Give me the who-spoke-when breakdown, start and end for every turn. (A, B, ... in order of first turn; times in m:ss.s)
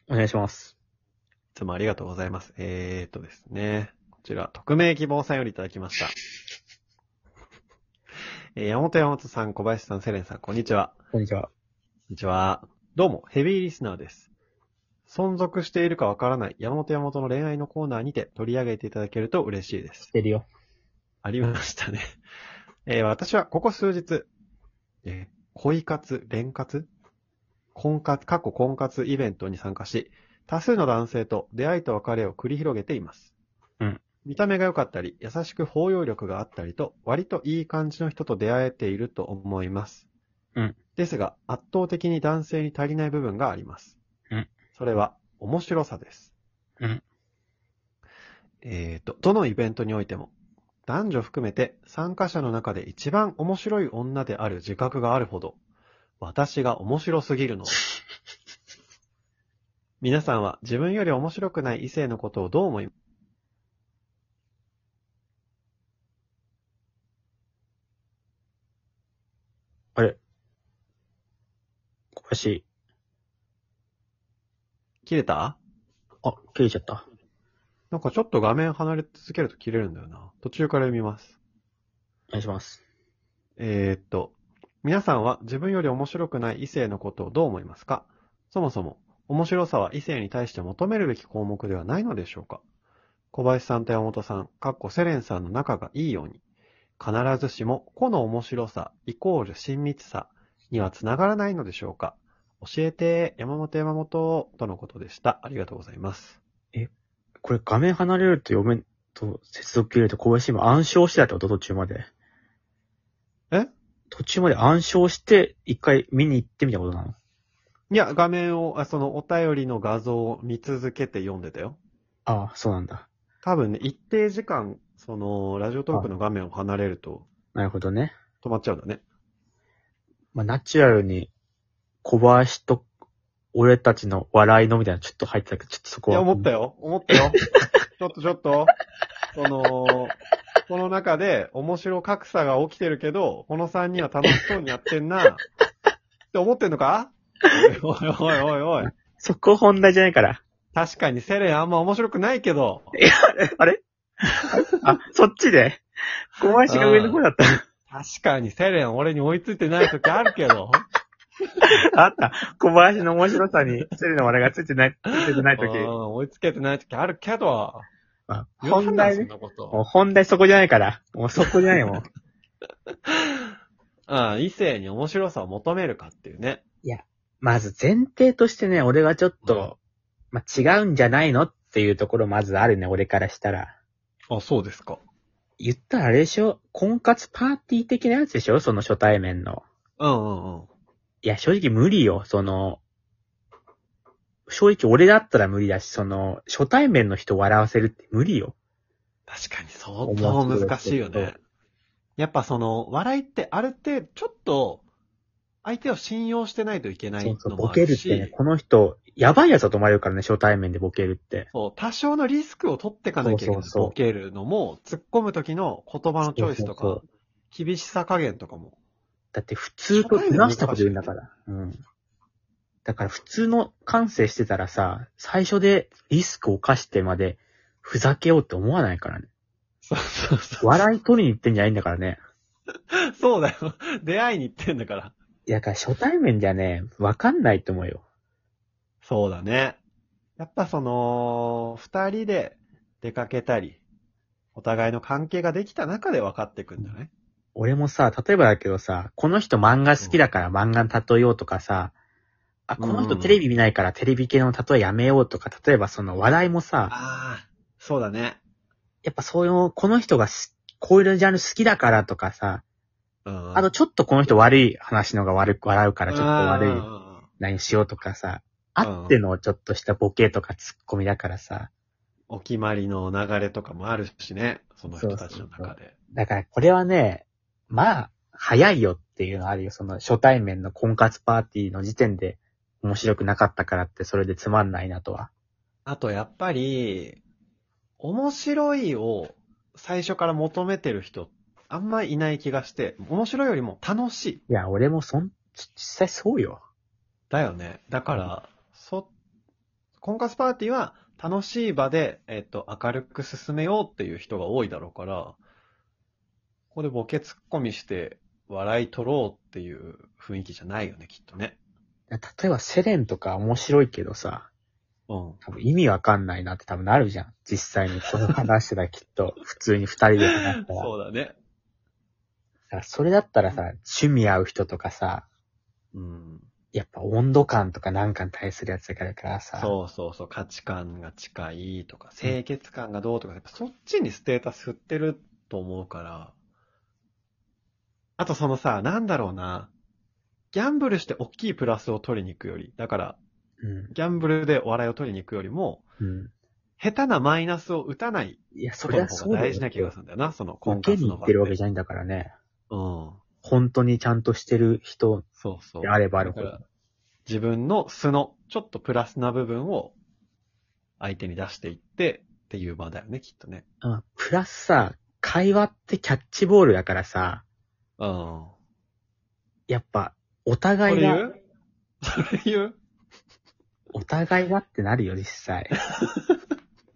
0:00.1-0:00.8 A
0:01.5-0:06.2 B
0:08.6-0:11.0 B
0:11.1-0:11.5 A
0:12.1-0:14.3 B
0:15.1-0:20.1 B
0:20.1-0:20.5 A
0:21.2-0:22.0 B
0:22.9-0:24.3 B
0:25.0-0:26.9 B
0:27.8-0:33.3 B
0:34.2-0:40.1 B
0:41.0-0:44.0 B
0:44.7-0:46.3 B
0:48.6-0:50.3 B
0:50.9-0:55.6 B
0:56.2-0:57.8 B
1:00.0-1:02.9 B
1:12.2-1:12.6 A
1:15.0-1:15.6 B
1:16.2-1:17.0 A
1:17.9-1:21.4 B
1:22.3-1:22.8 A
1:23.6-1:32.6 B
1:33.3-1:36.4 B
1:37.0-1:46.4 B
1:47.4-1:52.1 A
1:54.1-1:57.2 A
1:57.9-2:01.8 B
2:02.3-2:03.1 A
2:03.4-2:07.3 B
2:07.6-2:08.2 A
2:08.4-2:09.0 B
2:10.3-2:11.3 A
2:12.0-2:12.8 A
2:13.5-2:16.5 A
2:16.1-2:17.4 B
2:17.4-2:17.7 A
2:18.0-2:18.7 B
2:19.3-2:20.2 B
2:20.7-2:25.4 B
2:26.3-2:28.9 B
2:28.8-2:30.4 A
2:30.7-2:33.0 B
2:33.0-2:33.8 A
2:34.5-2:35.8 A
2:36.4-2:37.6 A
2:36.4-2:37.2 B
2:37.9-2:40.8 B
2:41.9-2:45.9 A
2:45.5-2:47.9 B
2:48.3-2:52.1 A
2:48.6-2:49.8 B
2:51.4-2:52.0 B
2:54.1-2:56.6 B
2:56.8-2:59.8 A
3:00.3-3:03.8 A
3:04.3-3:05.0 B
3:05.6-3:09.6 A
3:10.0-3:10.7 B
3:11.2-3:12.8 A
3:14.5-3:18.6 A
3:19.3-3:21.4 B
3:20.0-3:21.3 A
3:22.2-3:24.8 B
3:25.6-3:28.4 B
3:27.2-3:31.5 A
3:31.5-3:38.8 B
3:33.2-3:34.0 A
3:36.3-3:37.0 A
3:39.3-3:41.8 A
3:39.9-3:41.1 B
3:42.8-3:49.3 A
3:49.9-3:50.8 B
3:50.6-3:52.2 A
3:52.9-3:55.2 B
3:55.5-3:58.0 A
3:59.0-3:59.8 B
4:00.4-4:03.8 B
4:04.6-4:07.1 B
4:07.6-4:11.9 A
4:12.7-4:16.9 A
4:12.8-4:13.4 B
4:16.9-4:18.4 B
4:19.0-4:22.6 A
4:23.2-4:23.7 B
4:23.6-4:26.9 A
4:26.1-4:27.3 B
4:27.4-4:31.7 A
4:28.8-4:29.2 B
4:32.3-4:36.0 B
4:34.9-4:45.3 A
4:45.9-4:47.2 B
4:48.0-4:54.4 B
4:54.5-4:56.6 A
4:57.3-4:59.1 B
5:00.0-5:05.4 B
5:06.7-5:11.6 B
5:12.1-5:14.5 A
5:15.1-5:15.4 B
5:15.4-5:20.9 A
5:20.3-5:21.4 B
5:22.7-5:25.3 A
5:25.9-5:26.5 B
5:26.7-5:29.8 A
5:29.6-5:36.3 B
5:38.2-5:39.7 B
5:40.5-5:43.2 B
5:43.6-5:43.9 A
5:43.9-5:45.8 B
5:46.0-5:46.3 A
5:46.8-5:51.6 B
5:48.6-5:49.9 A
5:50.6-5:52.3 A
5:52.7-5:53.2 B
5:53.4-5:55.3 A
5:55.4-5:56.6 B
5:55.8-5:56.6 A
5:57.3-6:00.0 B
6:01.0-6:03.6 B
6:03.8-6:07.4 A
6:08.0-6:08.6 B
6:09.7-6:11.2 A
6:10.9-6:11.4 B
6:12.0-6:12.8 B
6:13.9-6:15.7 A
6:16.0-6:16.3 B